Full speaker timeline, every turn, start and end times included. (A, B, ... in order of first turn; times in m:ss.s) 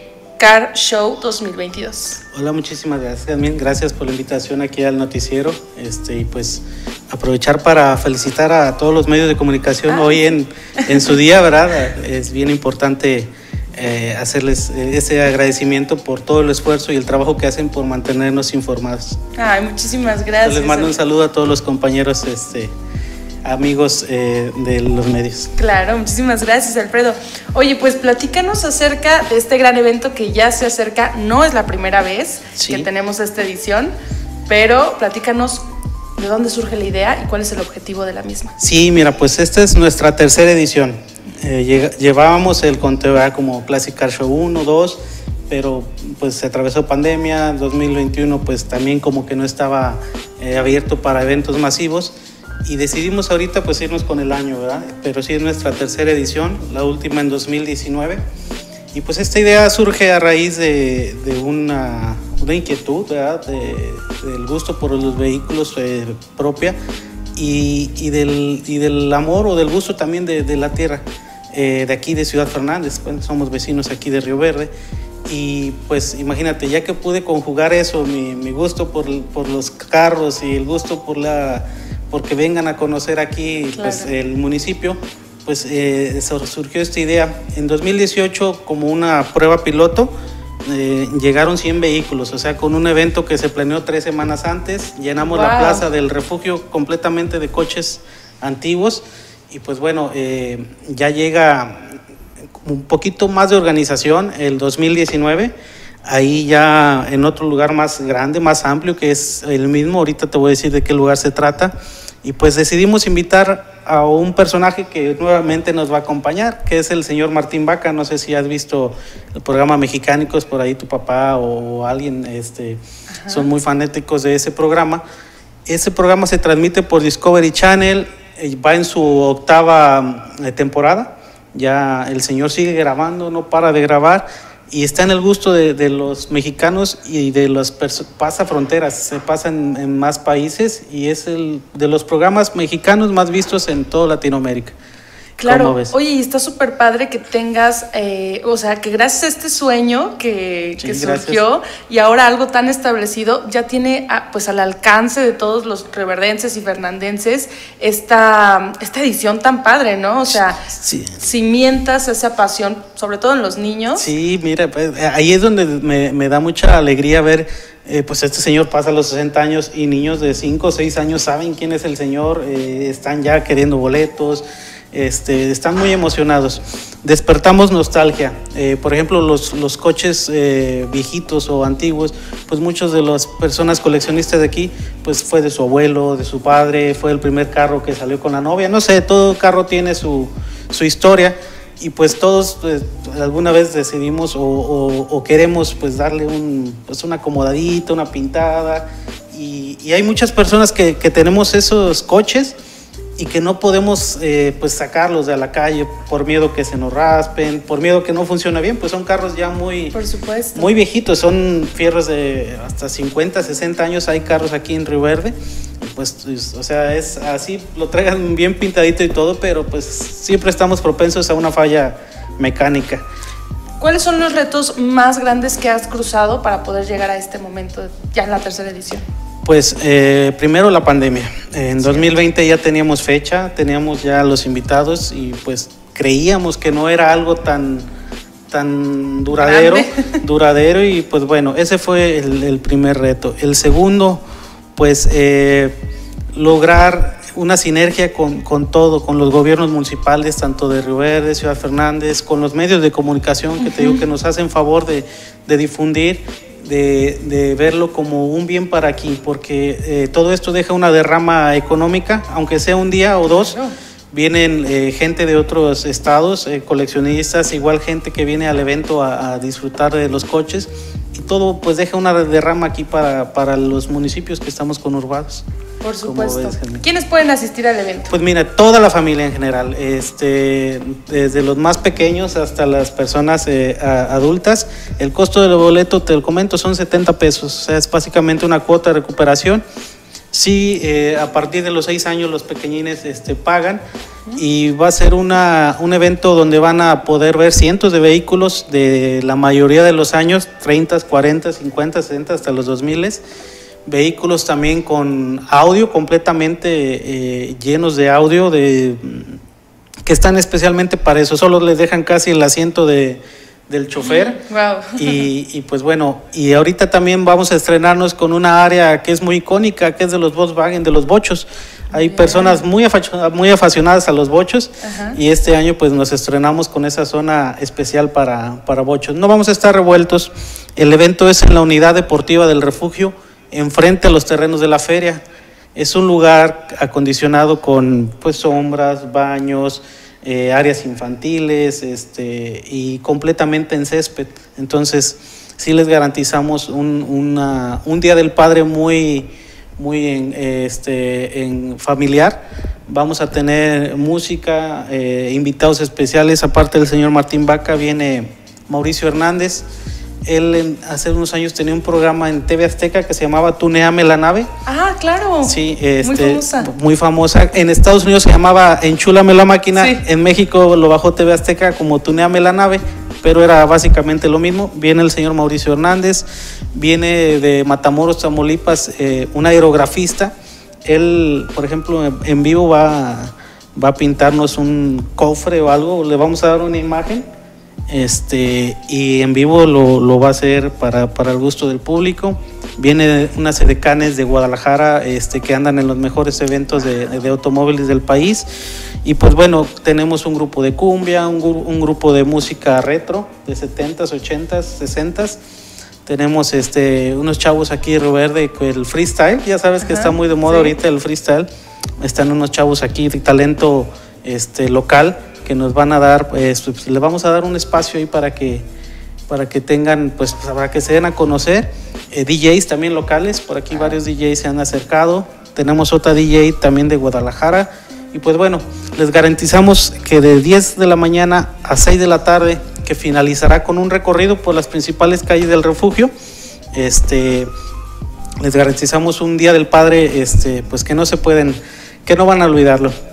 0:00.4-0:02.2 A
0:02.3-0:19.2 B
0:09.9-0:10.2 A
0:19.4-0:21.0 A
0:20.4-0:22.7 B
0:23.4-0:25.5 B
0:25.6-0:33.9 A
0:32.6-0:32.9 B
0:34.5-0:35.6 A
0:36.2-0:38.5 A
0:38.6-0:52.1 B
0:52.6-0:58.2 B
0:58.9-1:06.8 B
1:07.4-1:14.7 B
1:15.3-1:30.1 B
1:23.7-1:24.1 A
1:30.7-1:41.9 B
1:35.2-1:35.8 A
1:42.6-1:45.5 B
1:46.0-2:05.0 B
2:03.2-2:03.5 A
2:05.6-2:24.8 B
2:25.4-2:25.9 B
2:25.4-2:44.1 A
2:30.8-2:31.4 B
2:40.3-2:41.2 B
2:44.0-3:22.6 B
3:23.2-3:30.0 B
3:29.9-3:30.7 A
3:30.5-3:43.0 B
3:43.8-3:49.0 A
3:49.4-3:57.8 B
3:51.8-3:52.1 A
3:58.5-4:04.2 B
3:59.3-4:00.2 A
4:04.8-4:05.7 B
4:06.3-4:23.6 B
4:13.6-4:14.0 A
4:23.3-4:23.7 A
4:24.1-4:35.4 B
4:35.8-4:38.1 A
4:36.0-4:36.8 B
4:38.1-4:49.6 B
4:50.3-4:53.8 B
4:54.3-5:03.2 B
5:03.8-5:09.4 B
5:10.0-5:14.4 B
5:14.0-5:15.2 A
5:15.0-5:35.2 B
5:21.9-5:22.6 A
5:24.8-5:25.2 A
5:35.7-5:59.6 B
6:00.2-6:04.5 B
6:04.6-6:06.7 A
6:05.4-6:20.3 B
6:09.8-6:10.0 A
6:20.8-6:27.2 B
6:27.9-6:38.4 B
6:39.0-6:45.4 B
6:46.0-6:51.5 B
6:49.8-6:50.7 A
6:52.0-6:58.6 B
6:59.3-7:16.1 B
7:16.7-7:17.5 B
7:18.4-7:22.9 B